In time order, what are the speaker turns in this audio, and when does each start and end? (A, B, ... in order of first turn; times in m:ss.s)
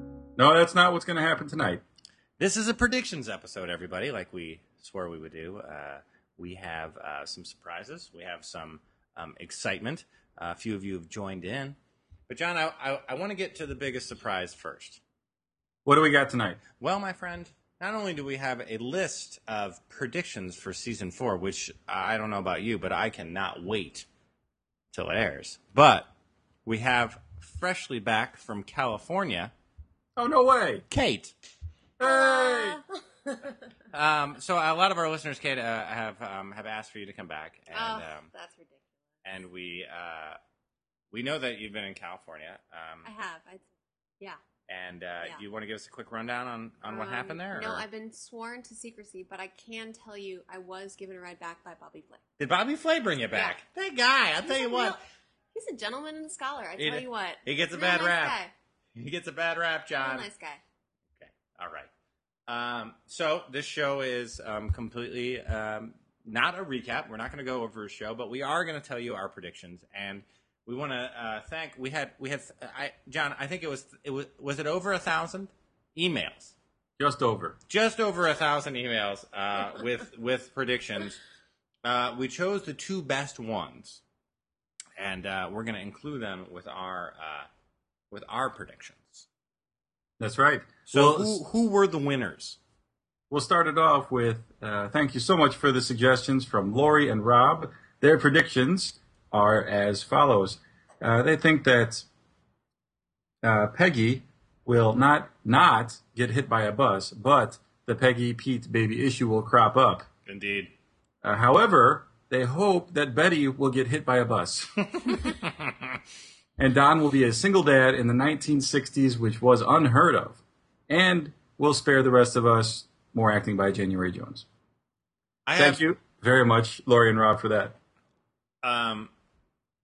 0:00.4-0:01.8 A
0:02.4-0:11.8 B
0:12.3-0:15.0 B
0:15.8-0:16.6 A
0:16.8-0:24.0 B
0:24.9-0:26.1 B
0:26.7-0:29.5 B
0:30.2-0:30.8 A
0:30.9-0:31.3 B
0:32.0-0:32.8 A
0:32.0-0:33.6 C
0:33.9-0:38.3 B
0:37.7-0:38.8 C
0:39.2-0:40.4 B
0:41.1-0:43.1 B
0:43.0-0:43.7 C
0:44.7-0:47.8 B
0:46.8-0:52.2 C
0:52.4-0:55.0 B
0:54.4-0:55.0 C
0:55.5-0:58.5 C
0:56.8-0:58.4 B
0:59.0-1:00.3 B
1:00.0-1:00.6 C
1:01.2-1:01.9 B
1:02.5-1:16.5 B
1:17.0-1:17.6 A
1:17.7-1:21.2 B
1:21.8-1:24.0 B
1:25.0-1:27.5 B
1:28.1-1:29.3 B
1:30.2-1:31.4 A
1:30.9-1:32.6 B
1:33.3-1:42.1 A
1:43.4-1:50.1 A
1:50.2-1:50.7 B
1:51.2-1:55.3 A
1:55.2-1:55.9 B
1:56.6-2:04.5 A
2:05.5-2:05.8 B
2:05.6-2:07.8 A
2:08.6-2:09.1 B